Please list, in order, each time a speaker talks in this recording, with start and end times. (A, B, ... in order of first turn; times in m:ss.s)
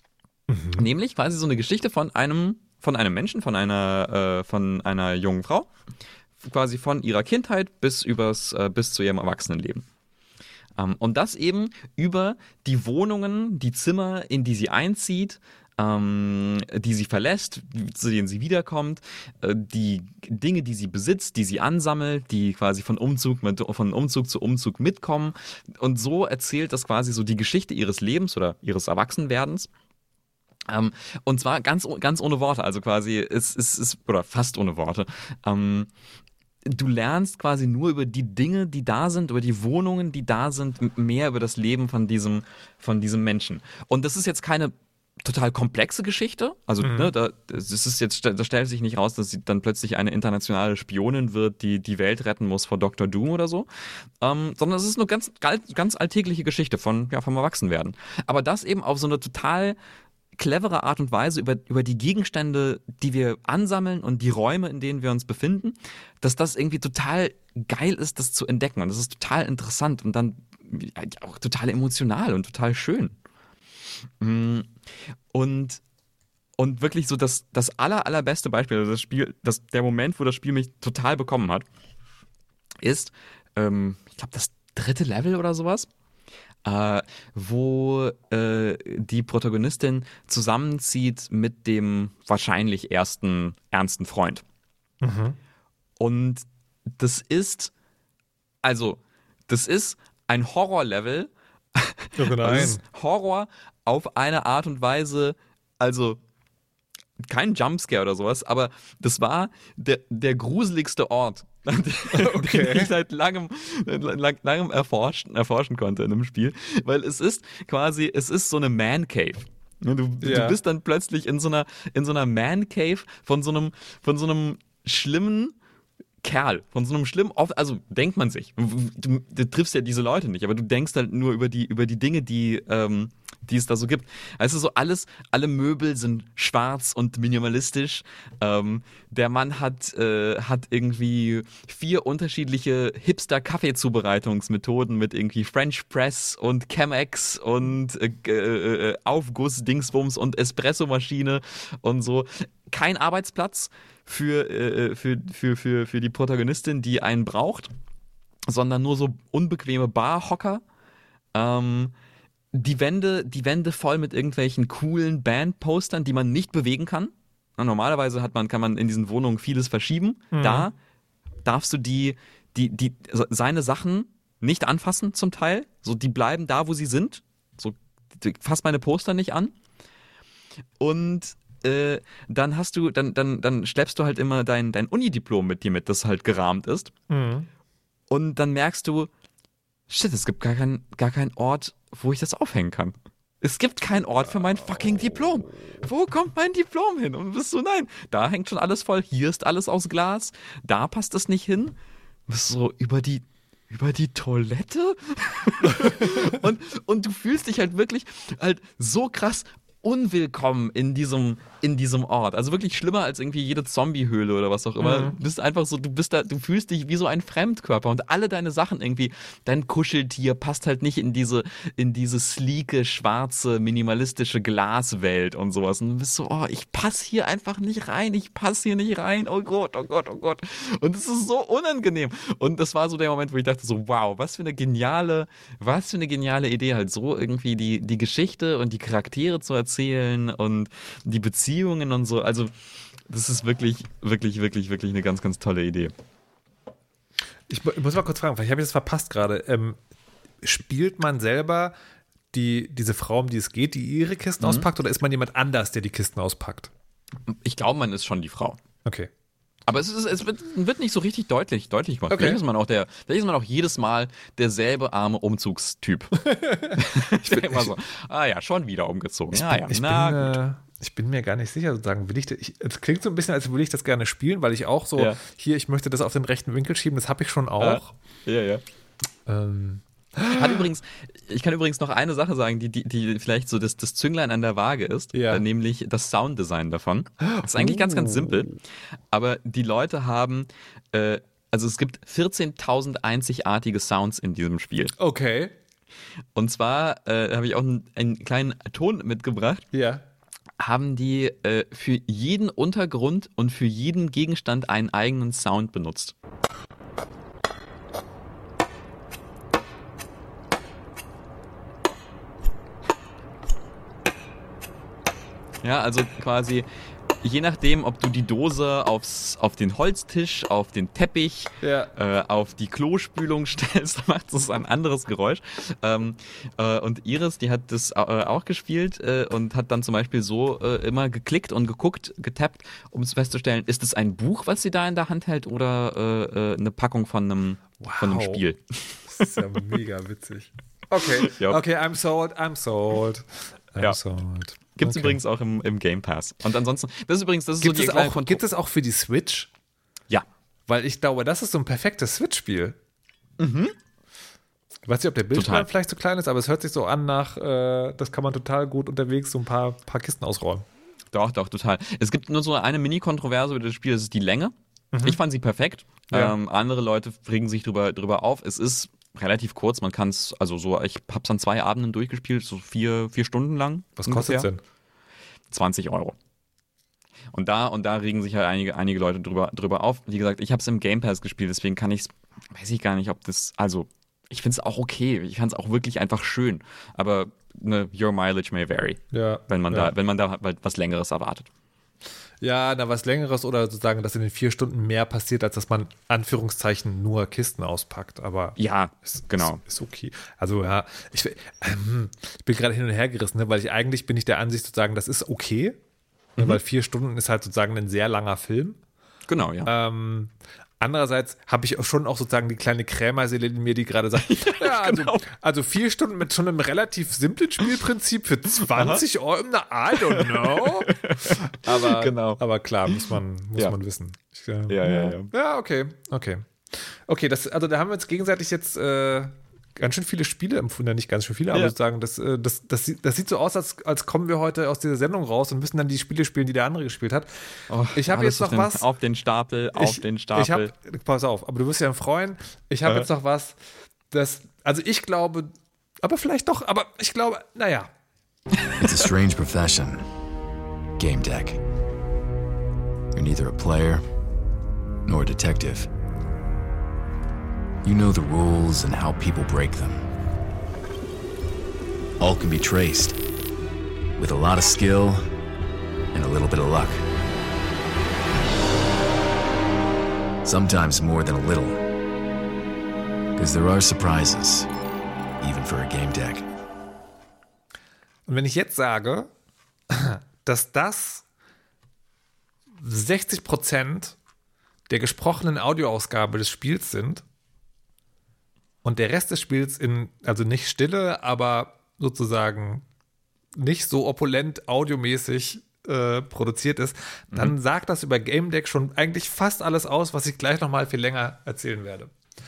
0:00.5-0:00.9 A
0:00.8-0:05.7 B
0:06.4-0:09.8 B
0:10.8-0:29.7 B
0:30.7-0:35.9 B
0:36.7-0:53.7 B
0:46.8-0:47.1 A
0:54.2-0:59.8 B
1:00.4-1:13.2 B
1:14.2-1:14.7 B
1:15.3-1:15.8 B
1:16.6-1:21.6 B
1:22.8-1:25.9 B
1:26.6-1:34.4 B
1:35.0-1:35.4 A
1:36.0-1:36.5 B
1:37.0-1:37.7 B
1:38.6-1:46.2 B
1:42.2-1:42.8 A
1:47.2-2:05.6 B
1:52.1-1:52.9 A
2:00.2-2:00.6 A
2:06.2-2:37.7 B
2:38.5-2:40.6 B
2:41.3-2:41.9 B
2:42.5-2:50.8 B
2:50.3-2:50.7 A
2:51.4-2:59.5 B
3:00.8-3:06.9 B
3:07.1-3:07.5 A
3:08.1-3:09.1 B
3:09.9-3:21.8 B
3:22.3-4:02.5 B
3:34.8-3:35.2 A
4:03.1-4:05.9 B
4:07.5-4:09.8 A
4:10.4-4:11.7 A
4:12.3-4:16.7 A
4:14.4-4:14.7 B
4:17.3-4:18.6 B
4:18.8-4:19.1 A
4:19.7-4:26.2 B
4:22.1-4:22.4 A
4:26.2-4:27.7 A
4:26.8-4:30.4 B
4:29.3-4:37.9 A
4:37.6-4:38.6 B
4:39.3-4:40.7 A
4:40.3-4:48.6 B
4:45.1-4:45.4 A
4:47.2-4:48.5 A
4:49.1-4:54.9 B
4:55.0-4:55.5 A
4:56.4-4:59.6 B
4:59.7-5:00.0 A
5:00.6-5:06.1 B
5:15.6-5:16.7 B
5:17.2-5:39.4 B
5:21.6-5:21.9 A
5:37.8-5:38.4 A
5:39.1-5:45.2 A
5:41.2-5:41.6 B
5:44.8-5:48.4 B
5:47.6-5:49.5 A
5:50.7-5:52.8 A
5:53.4-5:53.8 B
5:54.9-6:00.6 A
5:55.3-5:55.7 B
6:01.1-6:14.5 B
6:04.9-6:05.2 A
6:06.1-6:06.4 A
6:14.0-6:14.6 A
6:15.5-6:16.2 B
6:17.3-6:31.5 B
6:29.1-6:29.9 A
6:32.4-6:45.8 A
6:38.6-6:39.6 B
6:46.4-6:48.8 A
6:49.3-6:49.7 B
6:49.6-7:17.3 A
6:54.2-6:55.3 B
6:58.6-6:59.0 B
7:00.1-7:03.8 B
7:04.7-7:05.3 B
7:17.7-7:20.7 B
7:17.9-7:18.8 A
7:19.8-7:23.6 A
7:24.1-7:27.9 A
7:28.8-7:30.1 C
7:31.0-7:31.6 C
7:33.1-7:34.0 C
7:35.1-7:35.9 C
7:37.8-7:40.1 C
7:42.2-7:43.2 C
7:44.2-7:45.3 C
7:46.1-7:47.1 C
7:50.4-7:51.8 C
7:53.4-7:54.7 C
7:55.4-7:56.5 C
7:58.3-7:59.3 A
7:59.9-8:01.2 A
8:02.8-8:04.2 A
8:04.9-8:07.2 A
8:08.8-8:12.8 A
8:13.5-8:22.1 A